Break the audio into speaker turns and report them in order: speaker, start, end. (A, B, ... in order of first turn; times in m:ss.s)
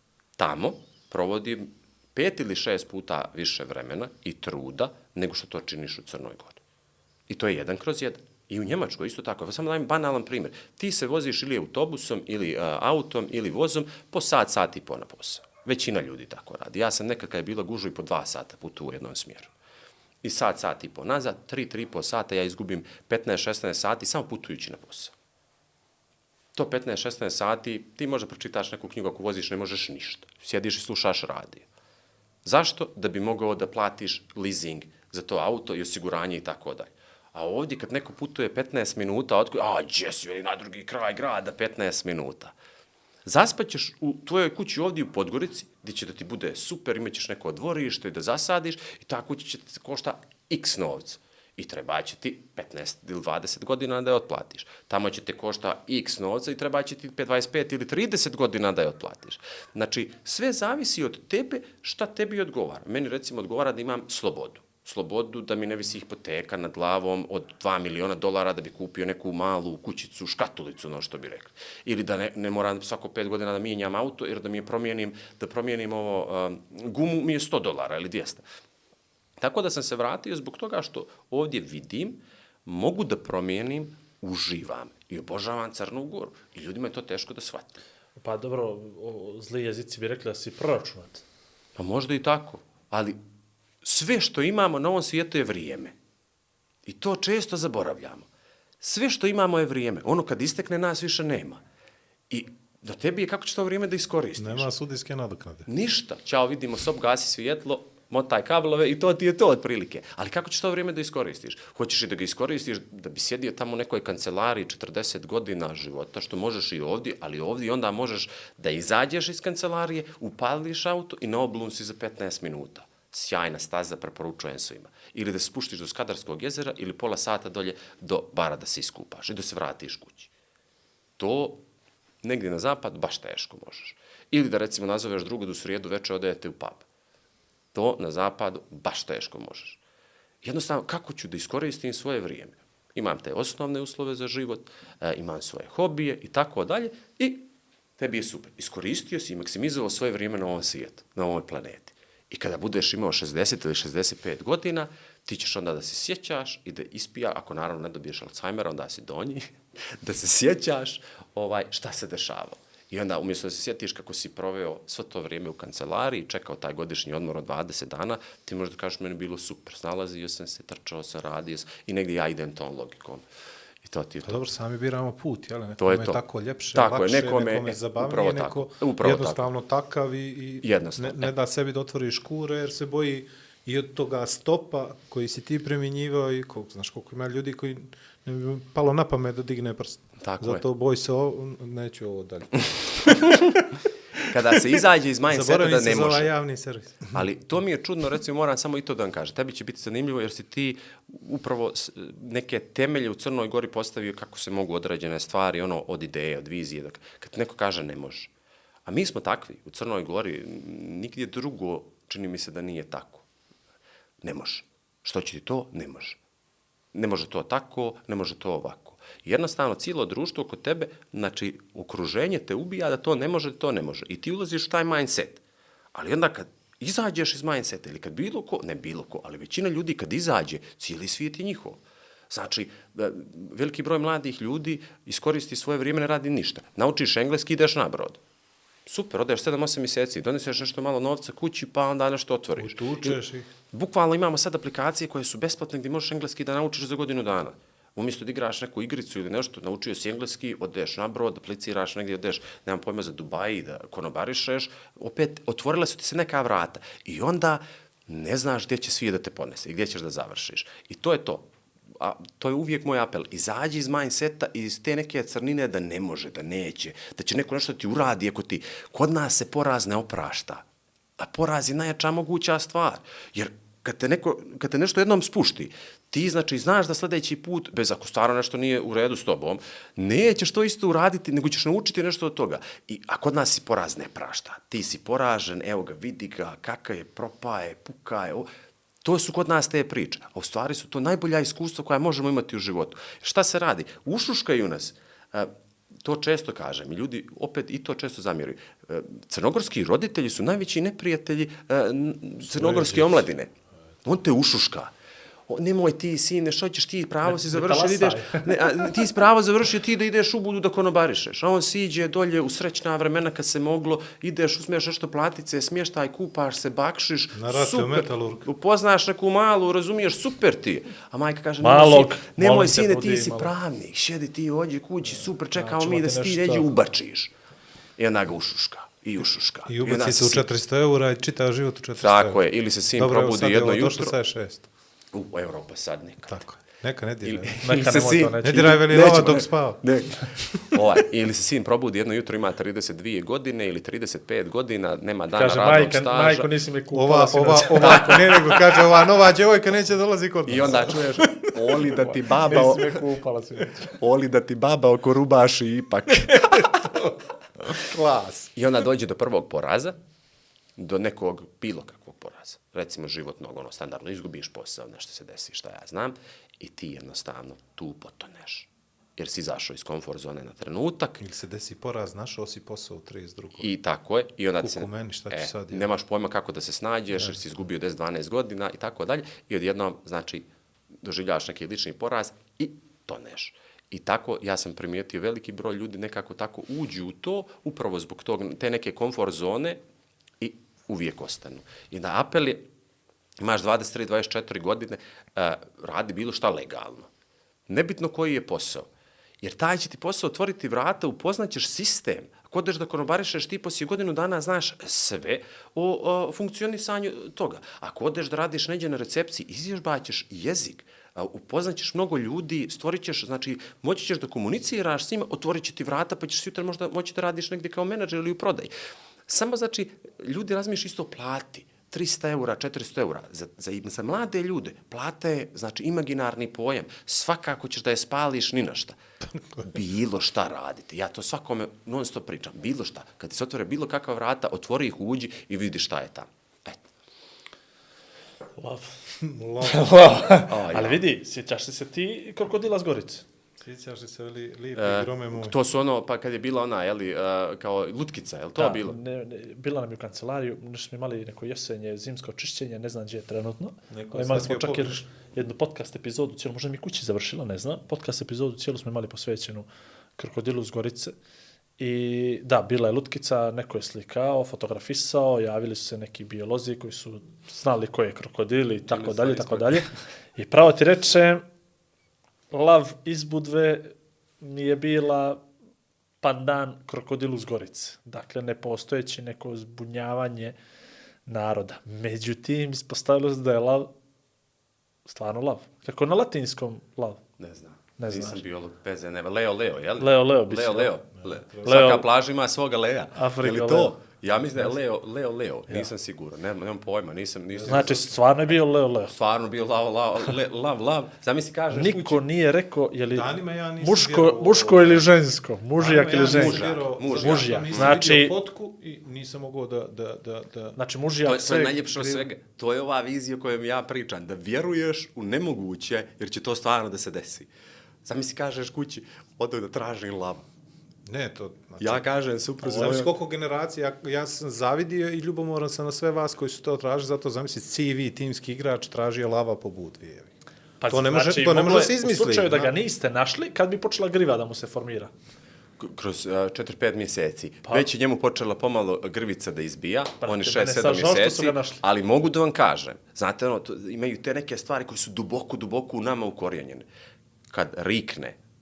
0:00.4-0:06.6 A
0:07.3-0:19.5 A
0:20.2-0:25.1 A
0:26.5-0:31.6 A
0:32.4-0:42.5 A
0:43.2-1:18.4 A
1:19.4-1:27.8 A
1:28.2-1:31.2 B
1:31.8-1:33.2 A
1:33.8-1:35.9 A
1:36.8-1:38.3 A
1:38.8-1:41.6 A
1:42.3-1:44.7 A
1:44.4-1:45.7 C
1:45.7-2:10.3 A
2:11.2-2:11.6 A
2:12.2-2:16.8 A
2:17.7-2:19.8 A
2:20.4-2:27.4 A
2:28.0-2:39.5 A
2:40.0-2:53.2 A
2:53.8-2:54.4 A
2:54.2-3:13.6 C
2:55.8-2:56.2 A
2:56.7-2:59.5 A
3:00.6-3:01.3 A
3:10.2-3:10.6 A
3:14.2-3:16.3 A
3:14.5-3:17.2 C
3:17.1-3:28.3 A
3:28.8-3:33.2 A
3:34.2-3:36.2 A
3:36.9-3:45.4 A
3:45.9-3:58.2 A
3:58.8-4:03.2 A
4:02.6-4:03.5 C
4:03.7-4:21.5 A
4:22.0-4:30.6 A
4:31.2-4:48.5 A
4:49.0-4:55.5 A
4:56.0-5:03.5 A
5:02.5-5:03.2 C
5:04.0-5:04.9 A
5:05.5-5:27.3 A
5:07.2-5:08.9 B
5:17.3-5:18.5 C
5:21.6-5:23.5 B
5:25.5-5:26.7 B
5:28.0-5:30.5 A
5:29.7-5:32.4 C
5:32.0-5:34.2 A
5:33.0-5:34.7 C
5:35.1-5:36.4 A
5:36.3-5:39.8 C
5:37.2-5:46.5 A
5:37.6-5:38.8 B
5:45.3-5:48.8 B
5:46.9-5:52.2 C
5:47.8-5:48.3 A
5:50.4-5:53.0 A
5:52.4-5:54.0 B
5:54.0-5:57.0 A
5:56.3-5:57.1 C
5:57.7-5:58.5 C
5:58.6-6:00.0 A
6:00.8-6:11.2 A
6:11.2-6:13.7 C
6:13.6-6:20.5 A
6:14.6-6:15.9 C
6:21.0-6:29.8 A
6:30.4-6:32.6 A
6:33.4-6:37.1 A
6:37.7-6:38.9 A
6:39.4-6:58.7 A
6:59.3-7:09.0 A
7:09.4-7:09.7 C
7:09.6-7:16.8 A
7:18.6-7:19.0 B
7:19.2-7:20.0 C
7:19.6-7:23.2 B
7:20.4-7:21.0 A
7:23.6-7:25.6 C
7:24.8-7:29.0 A
7:28.6-7:41.1 B
7:33.9-7:35.0 C
7:41.8-7:51.4 B
7:48.9-7:49.9 A
7:52.5-7:55.4 B
7:56.2-8:00.6 B
8:01.2-8:03.9 B
8:05.0-8:07.2 B
8:07.4-8:18.2 A
8:08.0-8:08.4 B
8:10.0-8:10.9 B
8:11.2-8:11.7 C
8:11.6-8:12.0 B
8:13.1-8:14.0 B
8:17.6-8:17.9 C
8:17.6-8:19.1 B
8:19.1-8:22.2 A
8:21.7-8:28.3 B
8:23.1-8:25.0 C
8:25.8-8:27.9 A
8:25.8-8:30.8 C
8:30.8-8:31.8 B
8:31.2-8:37.5 A
8:32.0-8:32.2 C
8:38.0-8:40.4 A
8:41.0-8:42.0 C
8:41.8-8:43.1 A
8:42.6-8:43.0 B
8:42.7-8:50.3 C
8:50.8-8:55.1 B
8:50.9-8:52.7 C
8:55.8-9:06.9 A
9:00.2-9:01.8 B
9:07.5-9:08.4 A